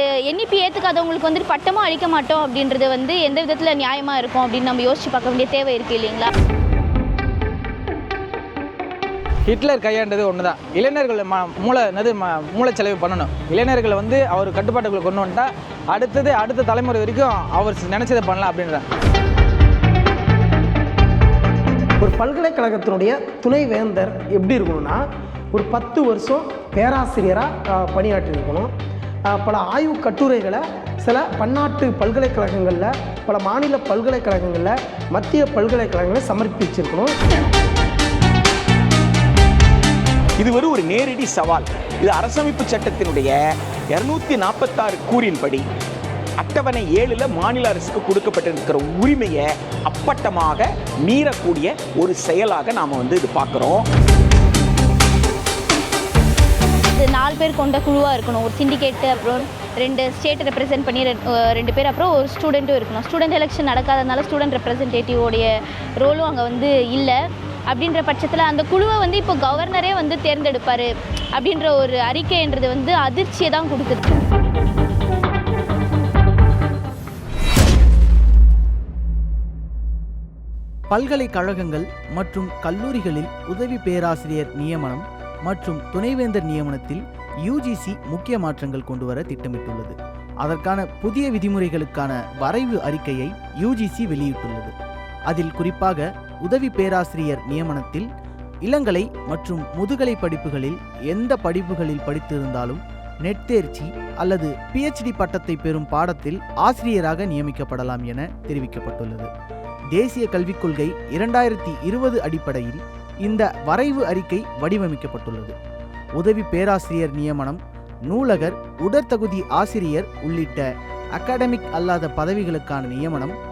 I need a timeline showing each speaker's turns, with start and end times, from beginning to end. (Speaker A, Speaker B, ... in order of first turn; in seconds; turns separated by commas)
Speaker A: 0.2-6.3, Speaker B: 9.5-18.8, Speaker C: 22.0-28.7, Speaker C: 29.3-37.1, Speaker D: 40.4-43.4, Speaker D: 43.9-45.6, Speaker D: 46.4-53.9, Speaker A: 56.9-67.2, Speaker A: 67.7-74.2, Speaker E: 80.9-94.7, Speaker E: 95.3-98.1, Speaker E: 98.6-109.3, Speaker E: 109.9-115.5, Speaker E: 116.2-123.3